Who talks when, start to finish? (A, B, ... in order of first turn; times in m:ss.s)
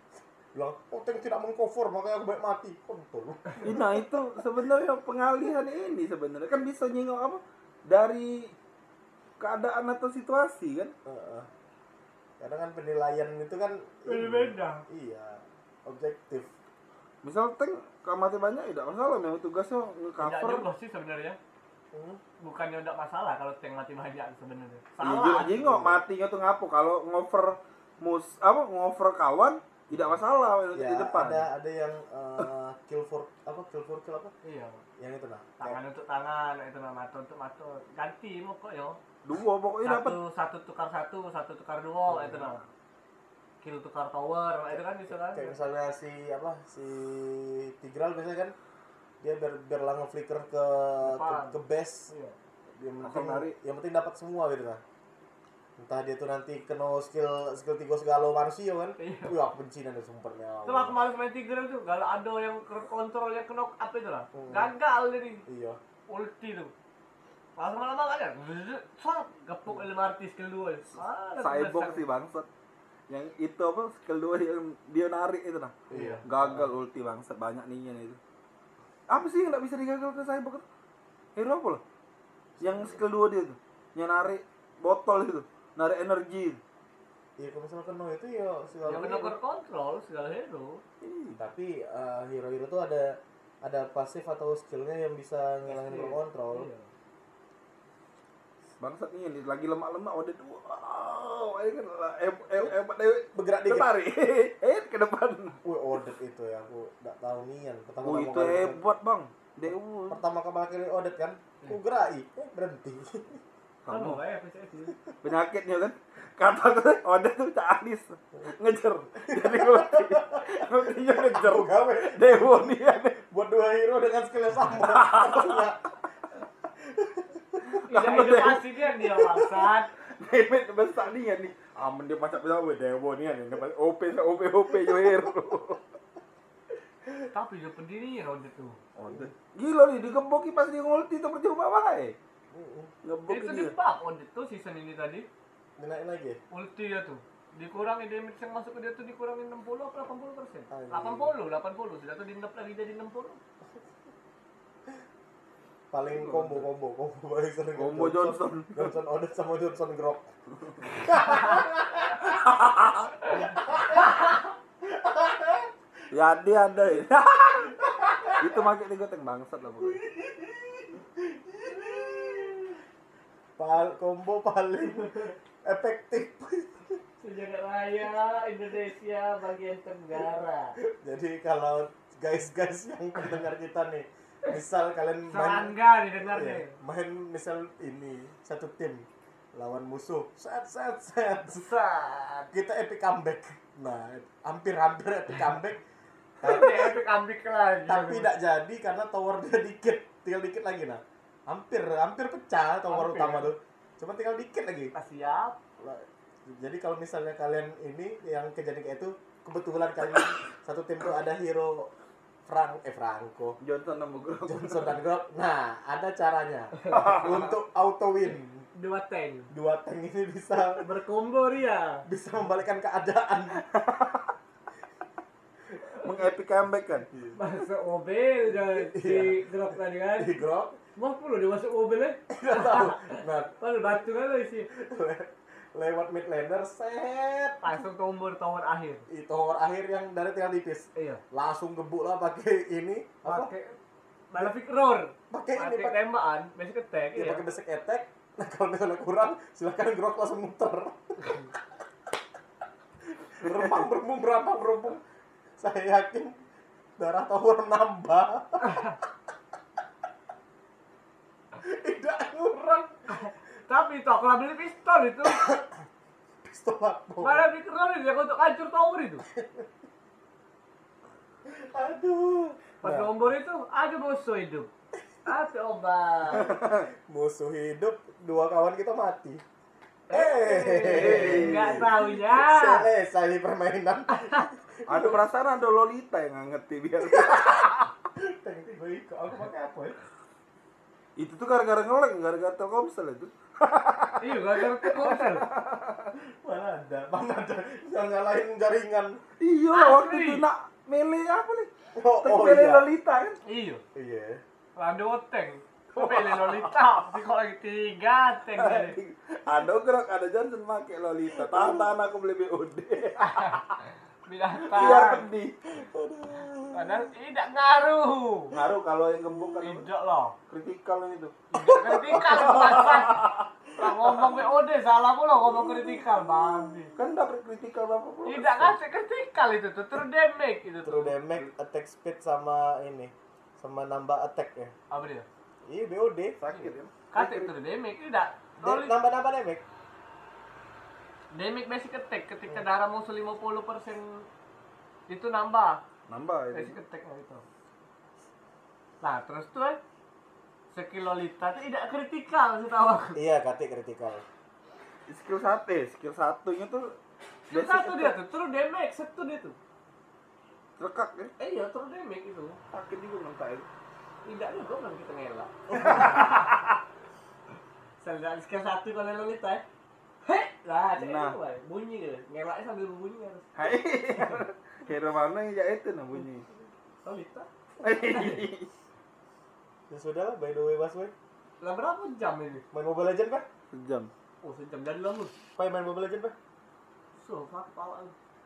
0:00.5-0:04.1 A
0:03.6-0:08.5 B
0:09.4-0:10.9 B
0:11.0-0:11.5 A
0:12.4-0:16.5 A
0:14.0-0:14.8 C
0:17.2-0:20.7 B
0:20.2-0:21.4 C
0:21.9-0:22.2 A
0:22.4-0:25.9 C
0:25.0-0:31.5 B
0:25.6-0:26.0 A
0:30.7-0:34.3 A
0:34.4-0:34.8 C
0:35.0-0:35.8 A
0:35.6-0:39.0 C
0:39.2-0:40.2 B
0:39.8-0:42.6 C
0:42.1-0:42.6 A
0:43.6-0:45.6 C
0:44.7-0:48.5 A
0:49.2-0:52.1 A
0:51.0-0:52.4 C
0:52.7-0:54.8 A
0:53.0-0:53.6 B
0:55.8-1:01.0 A
0:59.0-0:59.4 C
1:00.6-1:05.4 C
1:04.3-1:04.7 A
1:05.5-1:05.8 A
1:06.1-1:06.7 C
1:07.6-1:12.0 C
1:11.4-1:12.5 B
1:13.1-1:18.2 B
1:15.9-1:16.6 A
1:15.9-1:16.2 C
1:19.1-1:20.6 B
1:21.4-1:21.8 B
1:22.6-1:26.6 B
1:27.4-1:29.4 A
1:28.8-1:30.8 C
1:31.0-1:31.4 B
1:31.4-1:36.7 A
1:35.7-1:36.9 C
1:38.8-1:45.6 B
1:43.3-1:43.9 A
1:45.6-1:48.8 A
1:48.0-1:50.2 B
1:50.1-1:53.4 A
1:53.8-1:54.2 B
1:53.9-1:55.0 C
1:55.2-2:03.2 B
1:59.3-2:02.4 A
2:03.2-2:06.1 A
2:04.7-2:05.7 B
2:06.7-2:07.4 A
2:07.7-2:09.9 C
2:07.9-2:15.8 B
2:14.8-2:15.2 A
2:17.3-2:18.8 C
2:19.0-2:22.2 B
2:22.5-2:22.9 A
2:23.0-2:23.7 B
2:23.3-2:25.3 C
2:25.8-2:26.4 A
2:26.5-2:33.4 C
2:30.7-2:31.3 A
2:35.9-2:40.3 A
2:36.1-2:36.7 B
2:37.8-2:38.9 B
2:40.8-2:42.4 A
2:42.3-2:43.1 B
2:43.4-2:45.7 A
2:46.1-2:47.8 B
2:47.9-2:48.4 A
2:48.3-2:50.0 B
2:51.5-2:52.6 A
2:53.6-2:57.0 A
2:55.0-2:55.3 C
2:57.2-3:00.8 C
3:00.8-3:11.7 A
3:05.3-3:06.8 C
3:11.5-3:12.5 C
3:12.5-3:15.8 A
3:16.4-3:17.0 A
3:16.4-3:18.3 C
3:17.9-3:24.9 A
3:22.9-3:23.5 C
3:24.9-3:25.6 C
3:25.8-3:31.9 A
3:32.5-3:33.6 A
3:33.6-3:35.0 B
3:34.4-3:38.6 A
3:36.8-3:37.2 C
3:36.9-3:37.5 B
3:38.7-3:39.5 C
3:39.5-3:40.9 A
3:40.8-3:42.1 C
3:42.1-3:43.6 A
3:43.5-3:44.3 B
3:46.0-3:47.1 B
3:47.1-3:47.4 A
3:47.4-3:50.4 C
3:48.8-3:50.8 A
3:51.0-3:54.7 C
3:52.3-3:53.6 A
3:54.7-3:57.6 A
3:57.6-3:59.1 C
3:59.1-4:03.5 A
4:01.0-4:01.2 C
4:03.2-4:03.8 C
4:04.3-4:07.4 C
4:05.3-4:06.0 A
4:07.2-4:11.6 A
4:13.1-4:15.0 A
4:13.4-4:13.8 B
4:15.6-4:16.4 A
4:17.0-4:18.9 A
4:18.6-4:19.0 C
4:21.6-4:23.1 A
4:23.1-4:25.5 C
4:25.2-4:25.7 A
4:26.4-4:27.5 A
4:27.2-4:29.2 C
4:29.3-4:29.7 A
4:31.5-4:33.1 A
4:32.8-4:34.7 C
4:35.3-4:36.6 C
4:36.3-4:39.4 A
4:36.4-4:36.9 B
4:40.1-4:42.9 C
4:40.1-4:45.2 A
4:40.8-4:41.9 B
4:44.1-4:44.5 C
4:44.9-4:47.9 B
4:47.1-4:50.0 A
4:51.2-4:56.1 B
4:54.2-4:55.4 C
4:56.2-4:59.2 A
4:59.4-5:03.4 B
4:59.7-5:00.4 C
5:02.0-5:02.9 A
5:03.4-5:03.8 C
5:04.0-5:04.4 A
5:04.8-5:09.0 C
5:05.9-5:06.8 B
5:08.5-5:13.8 B
5:11.4-5:12.0 A
5:13.2-5:13.7 C
5:14.3-5:15.3 C
5:14.7-5:15.8 B
5:15.7-5:17.1 A
5:16.7-5:18.5 C
5:18.5-5:19.9 B
5:19.4-5:19.6 A
5:19.6-5:20.4 C
5:20.5-5:21.4 B
5:21.5-5:26.9 C
5:21.6-5:22.8 A
5:22.1-5:23.4 B
5:25.4-5:26.9 A
5:27.0-5:28.8 B
5:28.3-5:31.2 C
5:30.8-5:34.8 A
5:34.9-5:35.3 C
5:35.7-5:36.4 A
5:36.4-5:37.1 B
5:36.5-5:39.0 C
5:38.6-5:39.6 A
5:41.3-5:44.3 C
5:45.1-5:45.8 C
5:46.1-5:46.8 B
5:46.5-5:47.4 C
5:49.0-5:49.8 C
5:50.7-5:53.2 C
5:53.2-5:54.2 A
5:55.1-5:56.9 B
5:57.5-5:59.6 C
5:57.5-5:58.2 B
6:00.8-6:01.3 B
6:01.4-6:02.6 C
6:02.7-6:03.7 B
6:04.2-6:06.6 C
6:05.8-6:06.5 B
6:08.0-6:09.6 C
6:10.2-6:13.5 C
6:11.0-6:11.4 B
6:13.6-6:16.4 B
6:17.0-6:17.5 C
6:17.8-6:18.7 B
6:19.9-6:21.1 A
6:21.6-6:22.6 C
6:22.7-6:23.5 A
6:23.7-6:24.1 B
6:24.4-6:25.4 C
6:25.6-6:26.4 A
6:27.2-6:28.2 C